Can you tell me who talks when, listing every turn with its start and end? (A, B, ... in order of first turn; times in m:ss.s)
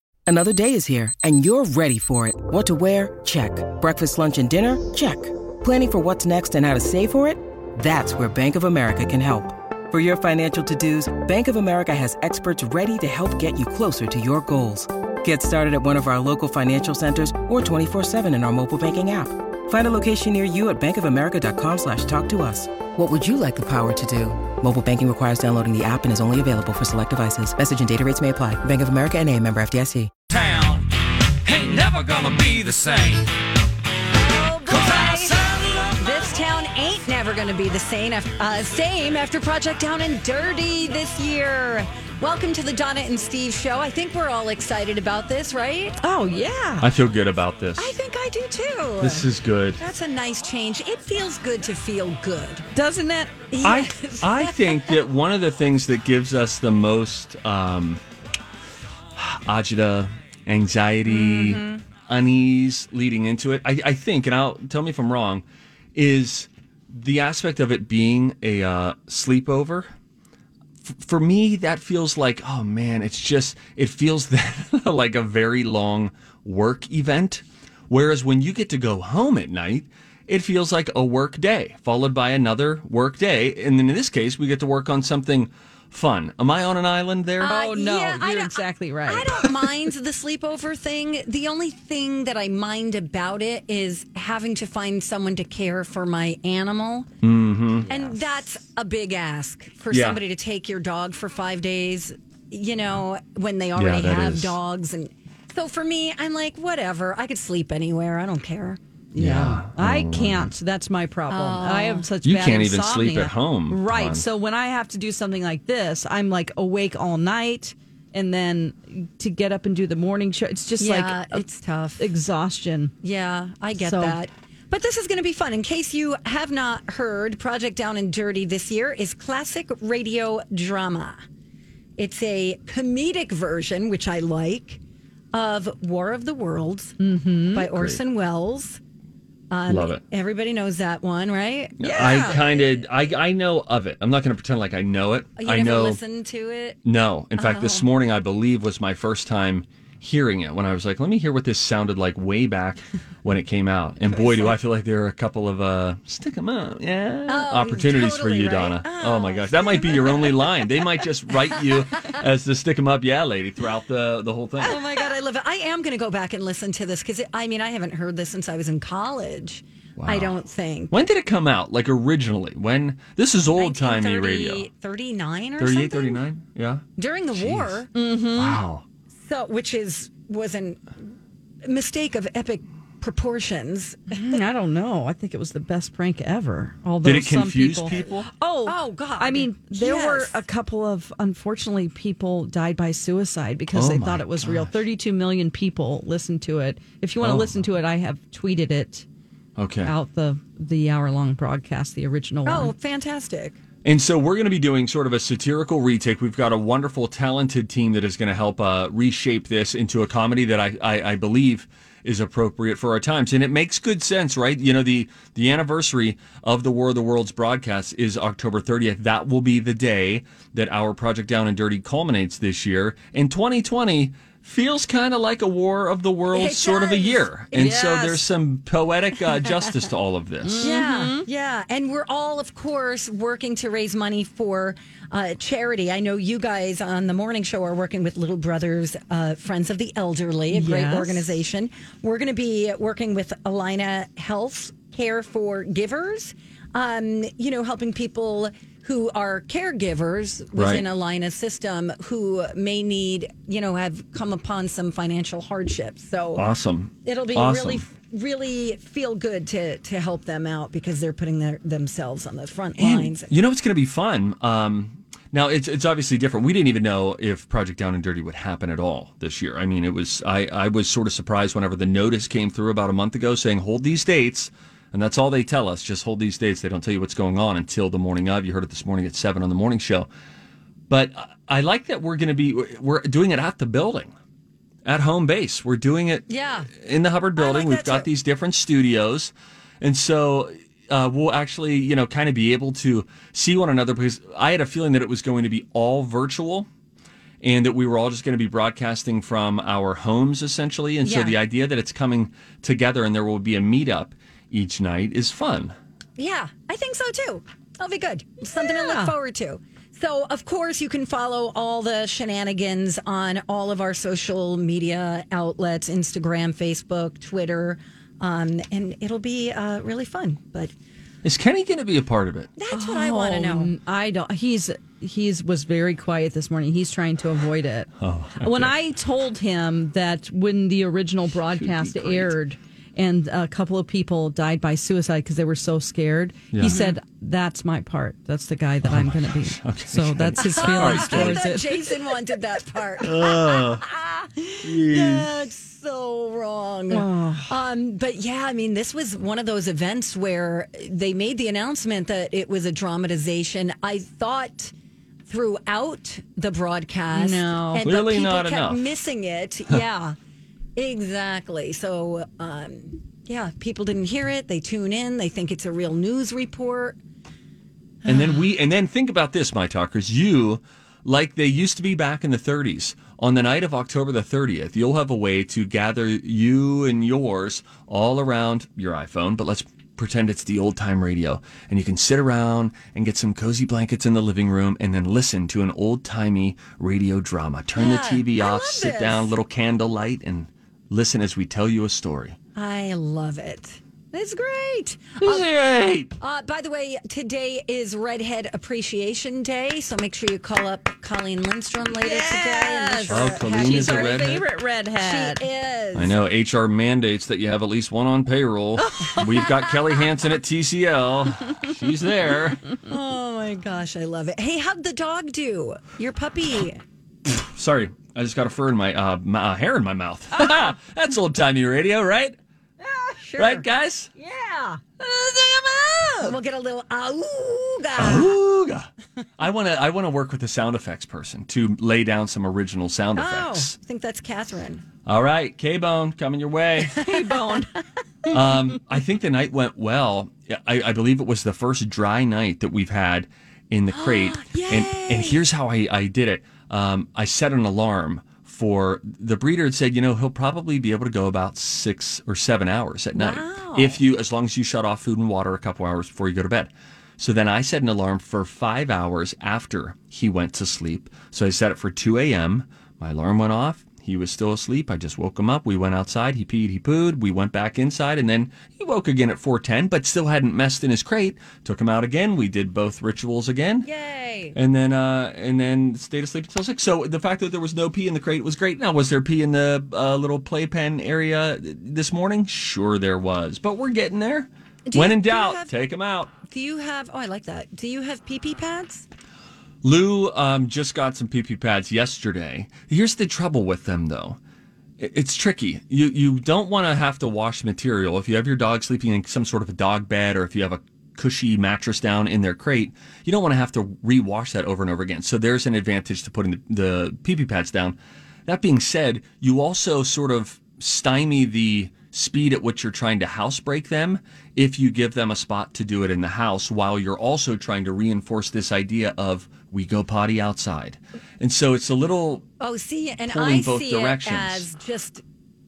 0:00.3-0:30.1 A
0:30.3-0:30.9 B
0:31.4-0:33.3 B
0:34.1-0:46.0 C
0:34.7-0:35.9 B
0:46.0-0:46.9 D
0:46.8-0:47.9 E
0:47.8-0:49.3 C
0:49.0-0:49.8 E
0:49.8-0:52.7 C
0:52.7-0:53.4 D
0:53.5-0:54.9 C
0:53.6-0:58.0 E
0:59.1-1:05.4 E
1:01.1-1:01.8 C
1:05.9-1:09.9 E
1:10.8-1:27.6 E
1:27.4-1:37.1 C
1:27.4-1:29.3 D
1:37.2-1:38.0 E
1:37.9-1:49.6 C
1:39.9-1:40.2 E
1:43.8-1:44.6 E
1:49.2-1:50.5 E
1:49.6-2:01.4 D
1:51.3-1:52.1 C
1:52.2-1:54.3 E
2:00.8-2:02.1 C
2:02.0-2:02.9 D
2:03.0-2:11.2 C
2:03.8-2:04.2 D
2:12.0-2:14.8 C
2:15.3-2:17.0 C
2:17.0-2:17.6 D
2:17.5-2:18.8 C
2:17.7-2:18.0 E
2:19.5-2:22.8 C
2:19.7-2:20.0 E
2:21.8-2:26.0 E
2:21.8-2:22.4 D
2:25.4-2:26.8 C
2:26.8-2:44.8 E
2:27.4-2:27.9 C
2:34.1-2:34.5 C
2:37.3-2:40.5 C
2:44.6-2:50.9 C
2:50.0-2:50.3 E
2:50.9-2:54.7 E
2:53.6-2:56.2 C
2:55.6-2:57.8 E
2:57.0-2:57.9 C
2:57.9-2:58.6 D
2:58.3-2:58.8 E
2:59.2-3:00.8 C
3:01.6-3:04.4 C
3:04.1-3:19.0 D
3:07.0-3:08.3 E
3:08.6-3:10.4 C
3:13.7-3:14.7 E
3:17.2-3:17.6 E
3:19.6-3:19.9 E
3:19.8-3:22.7 D
3:22.4-3:23.6 C
3:23.8-3:50.7 E
3:46.3-3:48.2 C
3:50.4-3:51.2 D
3:50.6-4:16.4 C
4:00.5-4:01.3 D
4:10.6-4:10.8 E
4:16.4-4:17.8 E
4:17.0-4:23.3 C
4:22.8-4:40.1 E
4:40.9-4:44.1 E
4:44.8-4:56.7 E
4:46.3-4:46.7 C
4:47.4-4:48.1 C
4:57.4-5:05.7 E
5:01.0-5:01.4 C
5:06.2-5:20.7 C
5:08.5-5:09.2 D
5:21.2-5:22.5 E
5:22.6-5:23.7 C
5:22.7-5:41.9 D
5:28.0-5:28.7 E
5:31.6-5:32.3 E
5:36.5-5:36.8 E
5:36.6-5:36.9 C
5:38.8-5:41.4 E
5:40.4-5:54.7 C
5:43.0-5:43.8 E
5:44.6-5:45.3 E
5:46.9-5:47.5 D
5:55.3-6:00.2 C
5:57.1-5:57.8 D
5:57.8-5:58.9 E
6:00.8-6:07.0 C
6:08.0-6:32.4 E
6:27.8-6:29.3 C
6:32.6-6:35.5 C
6:35.2-6:36.1 E
6:36.2-6:44.4 C
6:42.0-6:45.4 D
6:43.1-6:44.4 E
6:45.0-6:46.2 C
6:45.9-6:52.6 E
6:52.8-6:56.8 C
6:57.2-7:02.4 E
7:02.8-7:04.8 C
7:03.4-7:04.1 E
7:05.0-7:06.3 E
7:06.2-7:08.3 C
7:08.0-7:13.8 E
7:13.2-7:14.8 C
7:15.0-7:17.0 E
7:16.9-7:17.7 D
7:18.3-7:53.9 E
7:23.9-7:25.4 C
7:33.1-7:34.0 C
7:53.8-7:54.6 C
7:54.5-8:06.3 E
8:04.9-8:05.7 C
8:06.5-8:09.0 C
8:09.8-8:14.4 E
8:15.0-8:42.4 E
8:42.6-8:45.2 C
8:43.3-8:44.6 E